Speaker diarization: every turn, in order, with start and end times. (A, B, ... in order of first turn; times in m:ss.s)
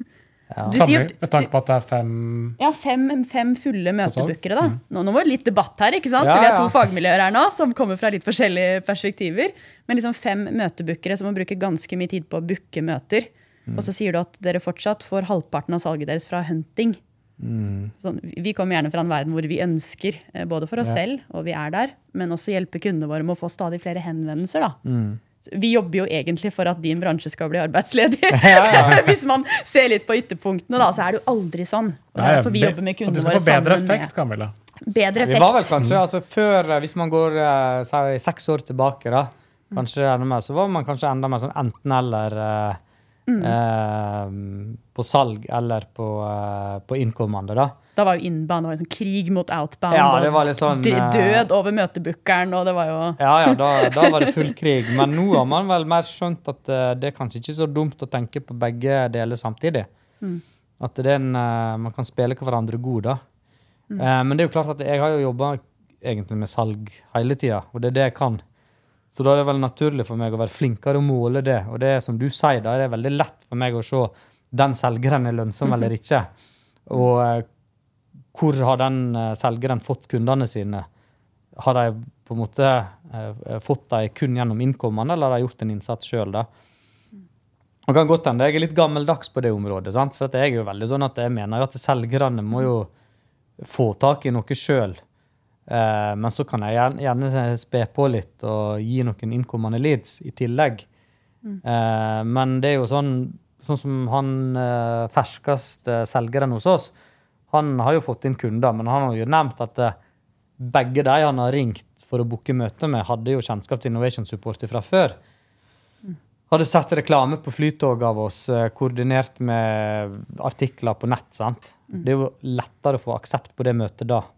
0:00.5-0:00.8 A
0:00.7-0:01.5 B
0:00.7-0:02.6 C
0:02.6-0:17.0 B
0:04.0-0:04.4 C
0:06.2-0:06.8 A
0:17.4-0:17.9 A
0:18.0-0:24.8 B
0:24.8-0:25.2 A
0:25.4-0:34.1 B
0:28.3-0:29.1 A
0:32.2-0:34.5 C
0:34.8-0:35.8 B
0:35.2-0:42.8 A
0:43.3-0:43.5 B
0:43.4-0:47.8 A
0:48.0-0:54.4 B
0:49.9-0:51.5 A
0:53.2-0:59.9 A
1:00.8-1:03.2 A
1:04.0-1:08.4 A
1:09.1-1:16.3 A
1:16.9-1:17.5 A
1:18.3-1:20.9 A
1:21.6-1:26.5 A
1:27.9-1:32.9 A
1:33.6-1:35.0 A
1:35.7-1:40.9 A
1:41.6-1:46.9 A
1:47.5-1:50.0 A
1:50.6-1:55.2 A
1:56.5-2:04.3 A